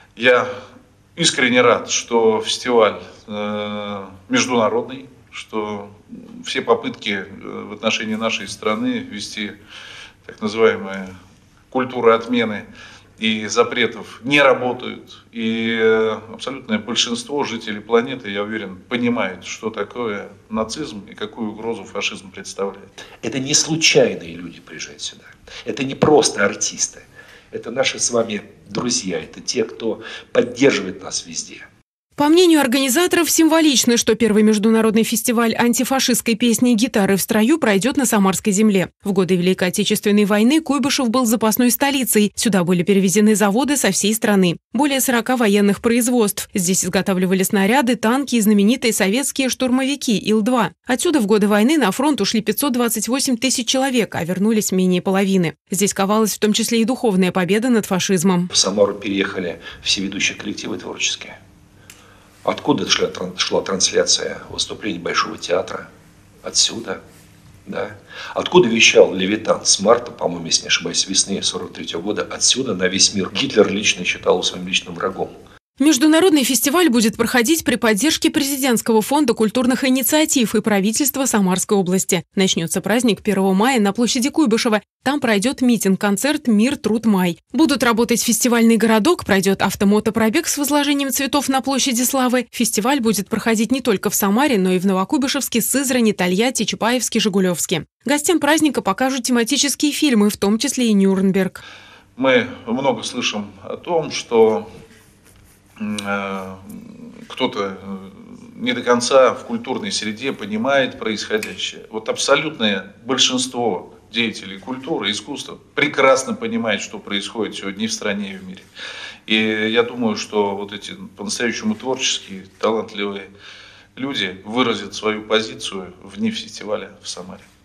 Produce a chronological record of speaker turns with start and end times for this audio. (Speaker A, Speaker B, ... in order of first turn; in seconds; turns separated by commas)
Speaker A: 0.2-0.5, Speaker A: 1.1-9.6, Speaker A: 10.2-11.2, Speaker A: 11.7-12.7, Speaker A: 13.2-22.9, Speaker B: 23.2-31.6, Speaker C: 32.2-58.5, Speaker B: 58.5-61.4, Speaker B: 62.4-65.9, Speaker B: 66.4-67.0, Speaker B: 67.7-75.4, Speaker C: 75.8-101.6, Speaker A: 102.2-104.7, Speaker A: 105.8-118.7, Speaker A: 119.3-123.3, Speaker A: 124.0-127.4